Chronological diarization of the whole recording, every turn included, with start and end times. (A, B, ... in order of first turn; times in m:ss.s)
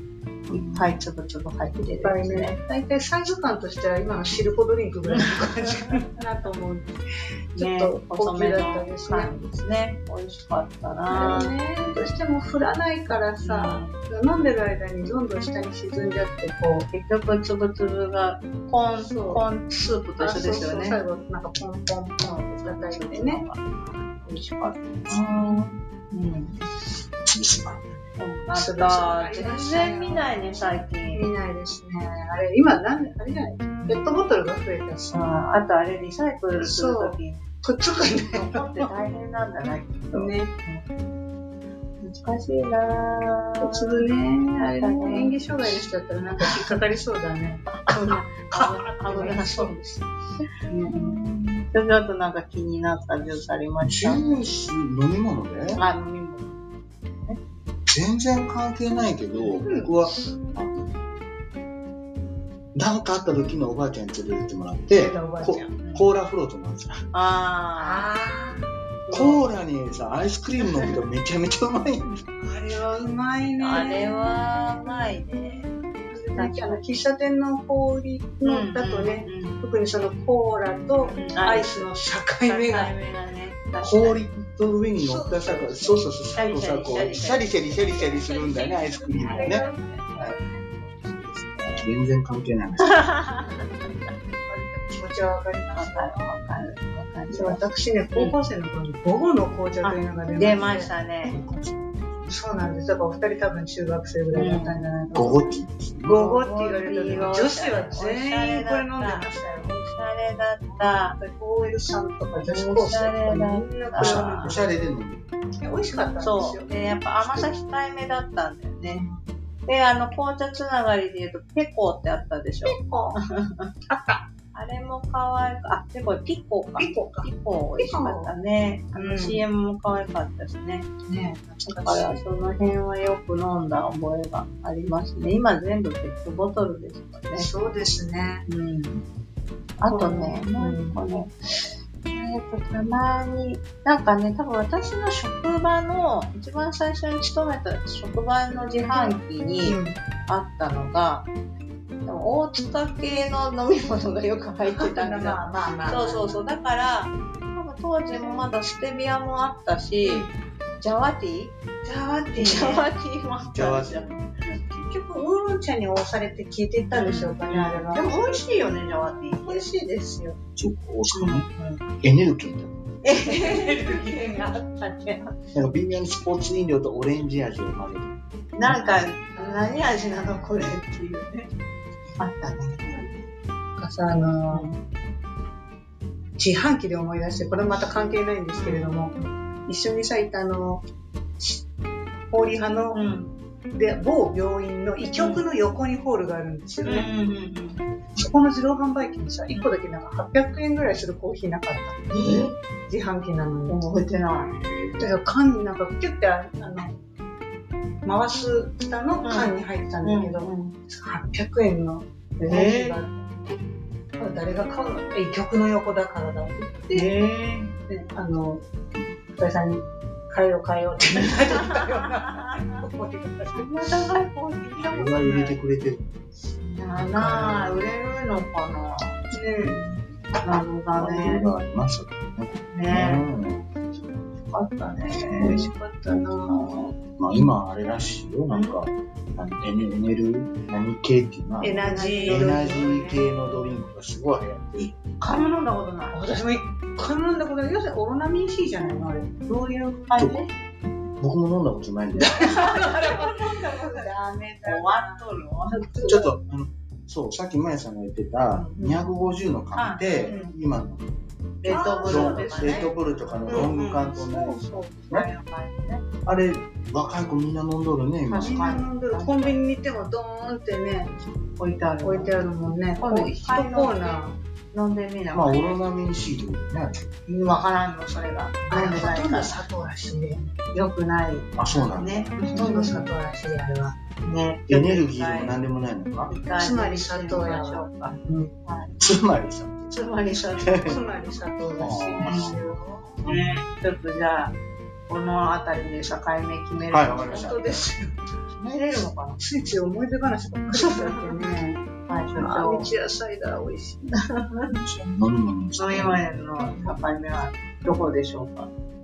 0:00.5-0:01.0 A
0:00.5-0:02.6 B
0:02.0-0:06.9 C
0:05.1-0:05.4 B
0:07.5-0:09.3 C
0:07.6-0:11.5 B
0:11.1-0:16.9 C
0:13.4-0:13.9 B
0:16.9-0:21.0 B
0:19.0-0:19.4 C
0:20.2-0:23.4 C
0:22.2-0:26.6 B
0:27.2-0:27.8 A
0:28.2-0:31.3 B
0:28.5-0:30.4 C
0:31.1-0:35.3 C
0:35.1-0:37.5 B
0:36.6-0:38.9 C
0:38.3-0:40.8 B
0:40.1-0:40.5 C
0:42.0-0:44.0 B
0:43.6-0:50.0 C
0:44.8-0:45.4 B
0:46.3-0:46.8 B
0:47.7-0:49.8 B
0:50.7-0:51.2 C
0:50.9-0:54.4 B
0:53.8-0:55.8 A
0:55.7-0:56.6 B
0:57.9-1:00.9 A
0:59.4-1:00.0 C
1:02.7-1:07.0 A
1:04.9-1:05.7 C
1:05.8-1:06.1 B
1:07.1-1:08.1 B
1:07.8-1:08.7 C
1:09.1-1:09.4 B
1:09.1-1:12.2 A
1:12.4-1:14.1 C
1:13.6-1:15.7 B
1:16.1-1:22.9 C
1:16.3-1:16.8 B
1:18.4-1:19.6 B
1:21.1-1:21.9 B
1:22.4-1:24.2 B
1:23.8-1:29.6 A
1:25.0-1:26.0 C
1:26.3-1:31.8 B
1:29.1-1:30.6 C
1:31.8-1:33.1 A
1:32.8-1:34.1 B
1:33.6-1:36.2 C
1:35.7-1:37.6 B
1:37.3-1:40.9 C
1:39.8-1:41.4 B
1:41.2-1:42.3 A
1:42.3-1:45.5 C
1:44.3-1:44.8 B
1:45.1-1:46.2 A
1:46.0-1:49.7 C
1:46.2-1:51.2 B
1:51.2-1:54.8 C
1:52.4-1:54.5 B
1:54.0-1:55.2 A
1:55.6-1:56.7 C
1:56.2-1:59.0 B
1:57.2-1:57.5 A
1:58.8-1:59.2 C
1:59.7-2:03.7 B
2:02.6-2:03.2 C
2:03.9-2:04.2 C
2:04.5-2:10.9 B
2:06.8-2:08.3 C
2:08.9-2:09.4 C
2:11.0-2:12.2 C
2:11.7-2:17.5 B
2:17.3-2:18.4 C
2:18.5-2:19.0 B
2:19.8-2:31.3 B
2:19.9-2:21.0 C
2:28.9-2:30.0 C
2:32.0-2:40.3 B
2:34.6-2:36.4 C
2:38.1-2:38.4 C
2:40.0-2:40.3 C
2:40.8-2:41.5 B
2:41.8-2:42.9 C
2:42.3-2:44.1 B
2:43.4-2:44.8 A
2:44.8-2:48.4 C
2:46.9-2:49.7 B
2:49.4-2:50.4 C
2:50.6-2:51.5 A
2:51.1-2:51.8 B
2:52.0-2:52.9 A
2:53.0-2:55.2 B
2:53.2-2:55.2 C
2:55.5-2:58.9 A
2:58.5-3:01.5 B
2:59.3-3:00.7 C
3:02.2-3:03.2 B
3:03.8-3:04.7 C
3:06.4-3:09.1 C
3:08.5-3:09.0 B
3:09.6-3:10.8 C
3:12.3-3:13.0 C
3:12.9-3:13.3 B
3:13.7-3:17.1 C
3:15.2-3:15.4 B
3:16.8-3:17.8 B
3:18.2-3:22.1 C
3:22.1-3:22.6 B
3:22.2-3:22.5 A
3:22.9-3:23.8 C
3:23.7-3:24.6 B
3:24.5-3:25.1 A
3:25.0-3:27.0 C
3:28.0-3:33.3 C
3:29.2-3:30.8 B
3:32.4-3:33.0 B
3:34.2-3:37.1 C
3:36.9-3:37.8 B
3:37.9-3:38.6 C
3:39.3-3:43.8 C
3:41.4-3:41.8 B
3:43.5-3:45.6 B
3:44.8-3:46.1 A
3:46.7-3:49.2 B
3:46.9-3:47.8 C
3:49.3-3:49.8 C
3:50.4-3:51.4 B
3:51.0-3:53.7 A
3:52.7-3:53.3 B
3:54.5-3:57.0 B
3:55.2-3:55.7 A
3:55.4-3:56.7 C
3:57.2-4:05.0 A
3:58.5-3:58.8 B
4:01.6-4:03.0 C
4:01.8-4:03.2 B
4:05.2-4:06.2 B
4:06.1-4:09.3 C
4:09.4-4:10.5 B
4:10.2-4:10.4 A
4:11.2-4:12.5 A
4:12.2-4:16.2 C
4:12.4-4:14.1 B
4:14.6-4:16.3 B
4:16.0-4:21.0 A
4:18.5-4:18.8 B
4:18.8-4:19.0 C
4:19.7-4:20.5 B
4:20.2-4:20.5 C
4:21.6-4:23.7 B
4:21.6-4:22.9 C
4:22.0-4:25.2 A
4:23.4-4:25.1 C
4:25.1-4:26.0 B
4:26.2-4:28.6 A
4:28.3-4:29.6 B
4:28.4-4:31.1 C
4:31.6-4:32.4 B
4:32.0-4:34.4 C
4:33.0-4:35.8 B
4:35.3-4:37.1 A
4:37.3-4:39.6 B
4:38.7-4:40.5 C
4:40.7-4:43.1 B
4:41.5-4:42.4 A
4:42.5-4:44.0 C
4:44.2-4:45.6 B
4:44.7-4:46.3 A
4:46.3-4:49.0 B
4:46.6-4:48.5 C
4:49.0-4:49.9 A
4:49.9-4:51.0 B
4:50.6-4:51.0 A
4:50.8-4:53.4 C
4:51.8-4:52.6 A
4:52.2-4:52.6 B
4:53.2-4:54.6 B
4:55.1-4:57.5 B
4:56.9-4:57.9 A
4:57.3-4:58.2 C
4:58.6-4:59.4 B
4:59.4-5:01.8 C
5:00.7-5:01.3 B
5:02.1-5:02.9 B
5:02.4-5:04.2 C
5:04.2-5:04.7 B
5:04.7-5:06.2 A
5:05.8-5:08.7 B